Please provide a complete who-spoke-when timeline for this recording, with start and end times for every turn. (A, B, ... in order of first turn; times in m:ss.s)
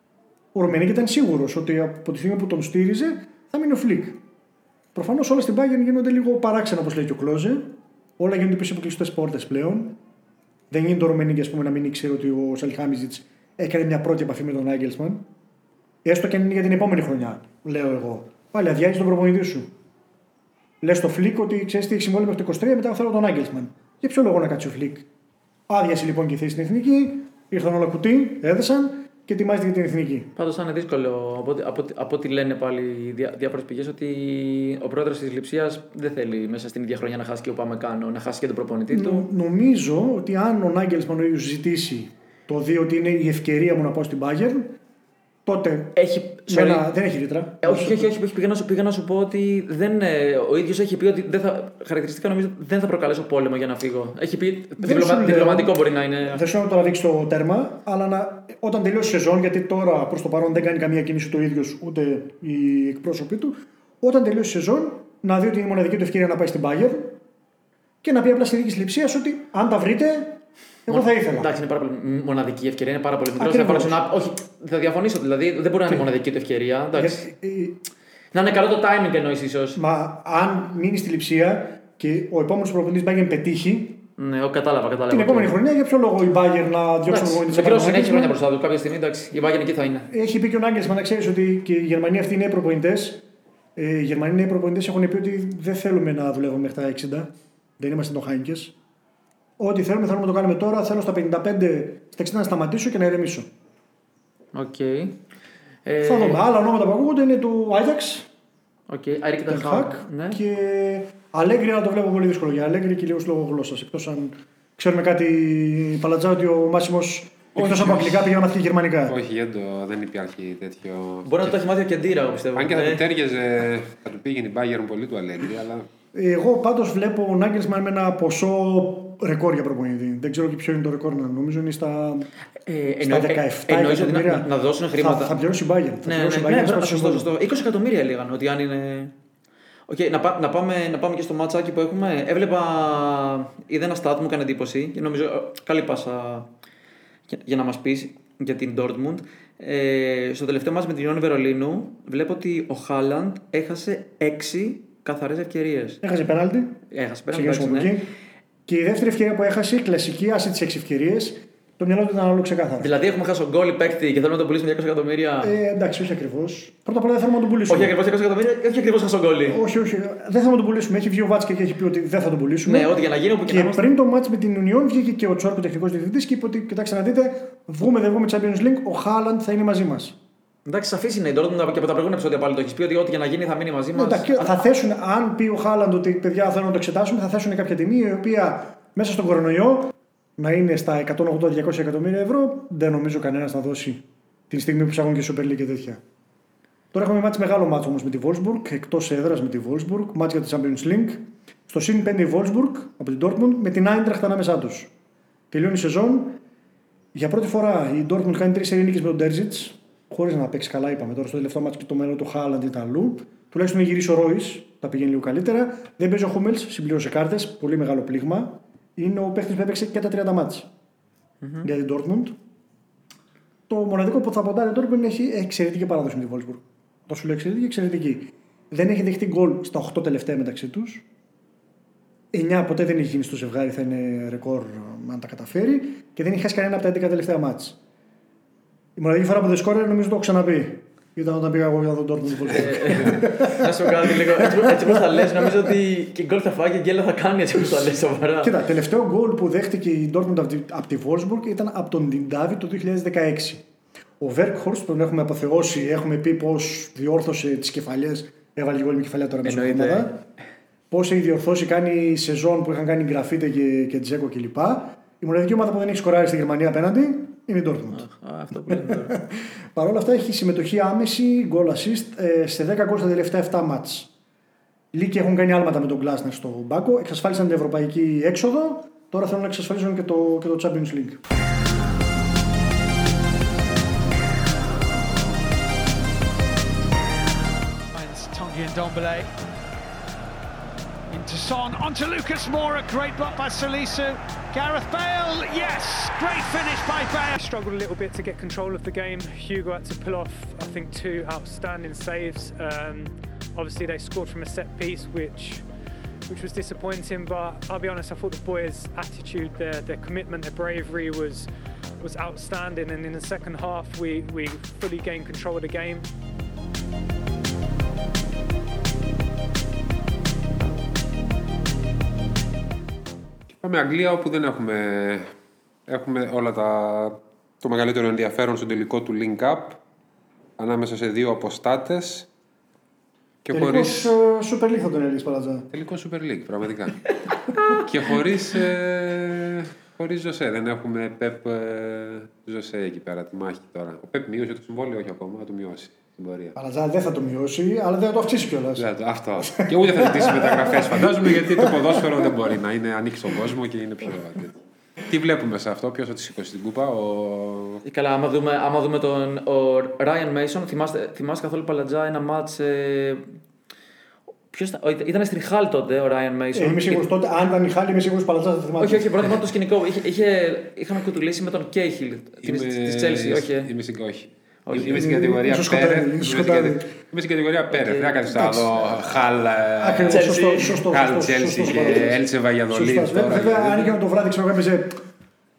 0:00.5-0:04.2 A
0:04.9-0:10.0 A
0:10.7-0:15.2 A
0:16.0-0:19.7 A
0:20.8-0:25.1 A
0:25.7-0:30.3 A
0:30.4-0:39.3 B
0:38.9-0:44.8 A
0:45.5-0:48.1 A
0:46.0-0:46.9 B
0:47.6-0:56.4 B
0:54.8-1:07.2 A
1:08.0-1:11.5 A
1:10.9-1:17.3 B
1:13.4-1:14.0 A
1:17.0-1:17.8 A
1:18.3-1:19.8 B
1:19.8-1:24.0 A
1:24.2-1:25.5 B
1:25.1-1:28.4 A
1:27.1-1:30.1 B
1:30.1-1:33.2 A
1:33.8-1:38.7 A
1:39.6-1:43.5 A
1:44.6-1:45.2 B
1:45.9-1:46.4 B
1:46.0-1:48.3 A
1:48.9-1:50.4 B
1:49.4-1:59.2 A
1:57.6-1:58.4 C
1:59.1-2:01.6 C
2:01.3-2:03.0 B
2:02.6-2:05.9 C
2:06.1-2:12.3 A
2:12.7-2:15.4 B
2:13.0-2:17.3 A
2:16.0-2:19.1 B
2:19.9-2:26.5 B
2:27.3-2:36.0 B
2:36.0-2:36.8 A
2:36.9-2:37.9 B
2:37.3-2:38.1 A
2:38.7-2:42.9 A
2:42.8-2:45.5 B
2:45.4-2:48.0 A
2:47.7-2:49.6 B
2:49.5-2:52.9 A
2:52.6-2:53.9 B
2:53.5-3:00.2 A
3:00.7-3:04.6 B
3:04.0-3:16.0 A
3:16.9-3:24.9 A
3:25.5-3:26.4 A
3:27.1-3:40.7 A
3:41.4-3:41.7 B
3:41.6-3:42.4 A
3:43.7-3:51.0 A
3:52.3-3:57.8 A
3:59.0-4:05.7 A
4:02.5-4:08.5 B
4:08.4-4:13.6 A
4:14.2-4:20.2 A
4:19.4-4:20.1 B
4:20.9-4:28.1 A
4:27.9-4:29.2 B
4:28.7-4:34.1 A
4:34.9-4:41.2 A
4:47.9-4:49.4 D
4:51.1-4:57.4 D
4:57.4-5:05.6 E
5:06.3-5:11.5 E
5:12.0-5:16.1 E
5:23.5-5:25.3 C
5:25.9-5:29.8 C
5:30.6-5:32.3 C
5:33.4-5:34.2 C
5:33.5-5:35.7 A
5:35.7-5:46.6 C
5:46.6-5:48.9 A
5:48.8-5:57.8 C
5:49.6-5:52.1 A
5:57.8-6:03.2 B
6:04.5-6:07.0 B
6:06.6-6:09.2 A
6:08.8-6:13.7 B
6:12.4-6:20.3 C
6:14.7-6:15.0 B
6:14.9-6:16.8 A
6:17.7-6:18.3 B
6:18.3-6:18.7 A
6:19.8-6:25.0 A
6:20.1-6:20.8 B
6:20.9-6:24.0 C